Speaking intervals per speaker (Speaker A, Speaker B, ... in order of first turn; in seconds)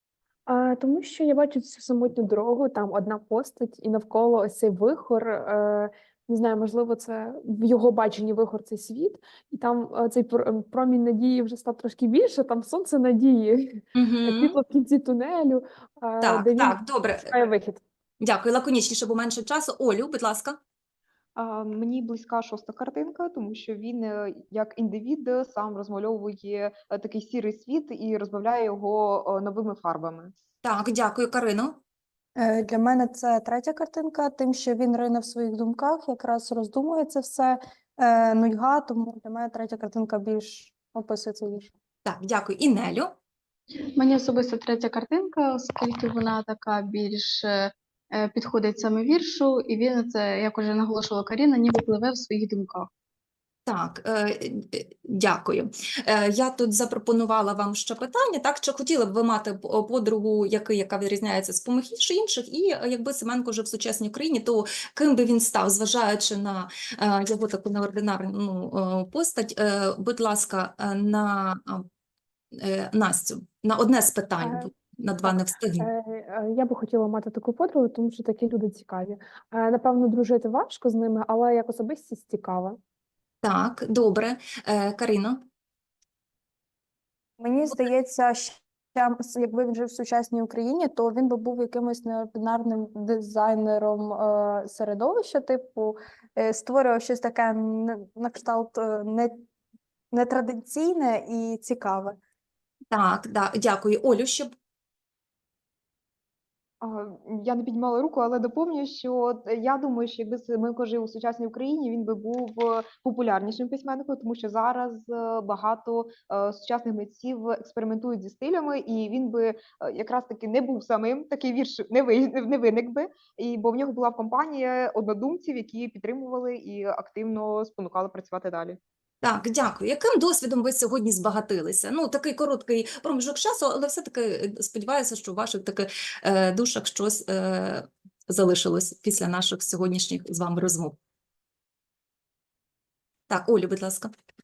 Speaker A: 0.5-17.8, 74.4-82.8
Speaker B: 13.9-14.6, 16.2-17.3, 18.2-20.6, 30.6-31.8, 42.0-43.1, 53.7-71.8, 72.6-75.9, 83.4-85.4, 102.9-104.5, 129.2-141.0, 143.3-144.1
Speaker C: 21.4-30.3, 106.8-128.8
Speaker D: 32.4-41.7, 87.4-99.5, 100.1-102.2
Speaker E: 43.9-52.9